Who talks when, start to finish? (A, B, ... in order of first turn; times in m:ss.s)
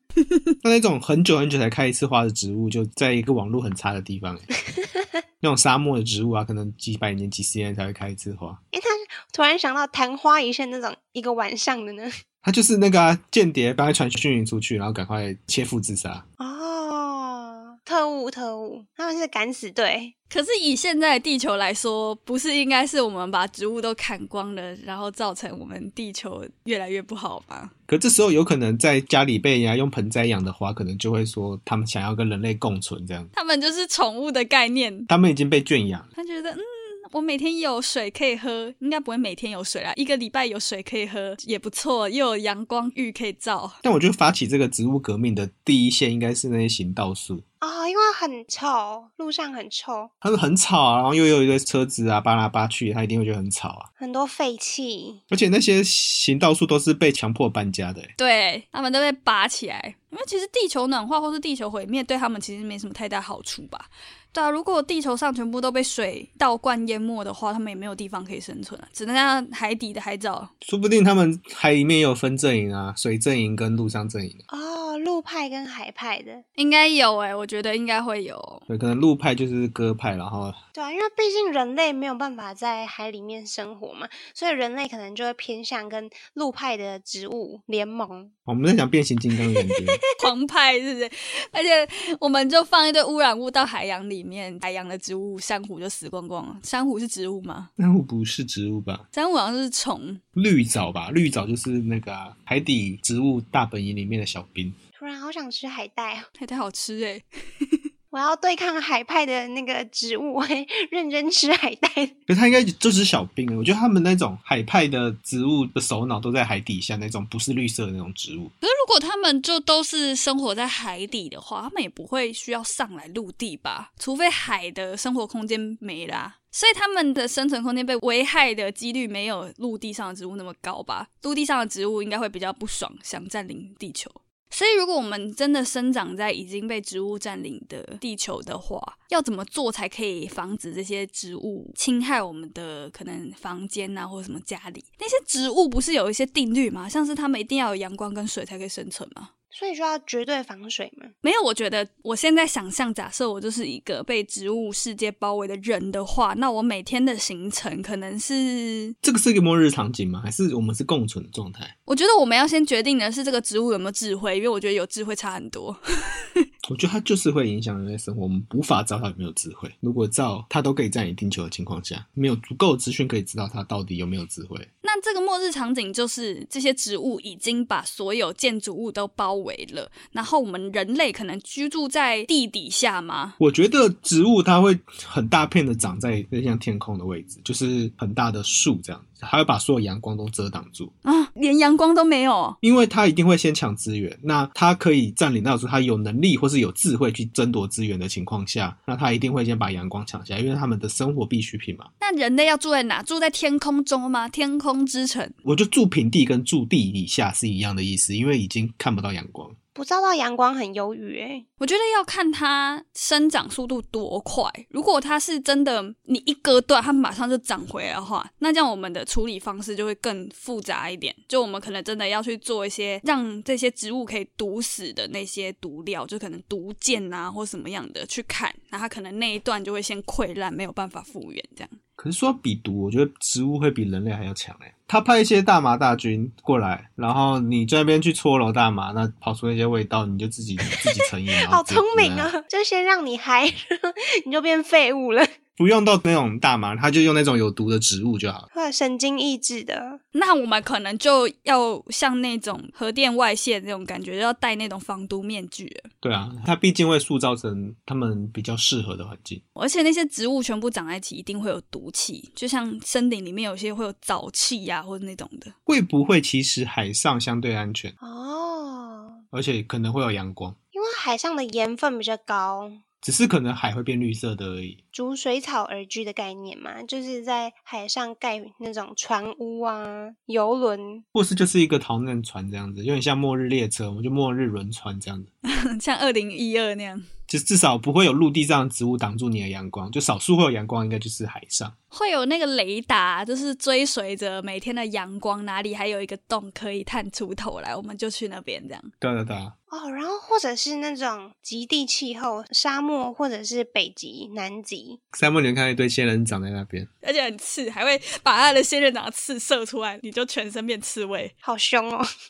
0:00.6-0:04.5 A
0:05.4-0:08.6 A
0:08.7-0:12.1 B
0:12.4-0:16.2 A
0:16.4-0:20.1 B
0:20.3-0:27.7 C
0:27.9-0:33.3 A
0:33.3-0:35.1 C
0:35.1-0:36.1 A
0:36.2-0:43.8 C
0:43.8-0:47.4 A
0:47.6-0:50.1 B
0:50.2-0:53.9 A
0:54.0-0:55.2 B
0:55.3-0:58.1 A
0:58.2-1:10.5 C
1:10.6-1:14.4 A
1:14.5-1:16.4 B
1:16.6-1:18.6 C
1:18.7-1:20.6 A
1:20.7-1:28.3 B
1:28.5-1:30.0 A
1:29.6-1:29.8 B
1:30.2-1:37.7 C
1:37.8-1:39.0 A
1:39.1-1:40.2 C
1:40.4-1:44.8 A
1:45.0-1:46.3 B
1:46.4-1:47.8 C
1:48.1-1:52.2 B
1:52.3-1:58.5 A
1:58.6-2:29.3 C
2:29.5-2:31.1 B
2:31.2-2:38.9 C
2:39.0-2:41.7 A
2:41.9-2:45.8 C
2:46.6-2:54.7 A
2:54.8-3:03.4 C
3:03.4-3:10.9 A
3:11.0-3:12.6 C
3:12.6-3:21.9 A
3:22.0-3:25.3 C
3:25.4-3:29.6 A
3:29.7-3:31.4 B
3:31.6-3:51.8 C
3:52.0-4:02.3 A
4:01.5-4:05.3 B
4:05.6-4:08.5 A
4:08.5-4:10.0 B
4:10.1-4:15.9 C
4:16.0-4:19.4 A
4:19.6-4:25.5 C
4:25.7-4:27.9 A
4:28.0-4:29.2 B
4:29.3-4:30.6 A
4:30.7-4:32.8 B
4:33.0-4:34.8 A
4:34.9-4:41.0 B
4:41.1-4:45.3 A
4:45.4-4:47.1 C
4:47.3-4:51.7 A
4:51.9-4:58.9 C
4:59.0-4:59.5 A
4:59.7-5:05.0 B
5:05.1-5:06.9 A
5:07.0-5:11.3 C
5:11.4-5:12.0 B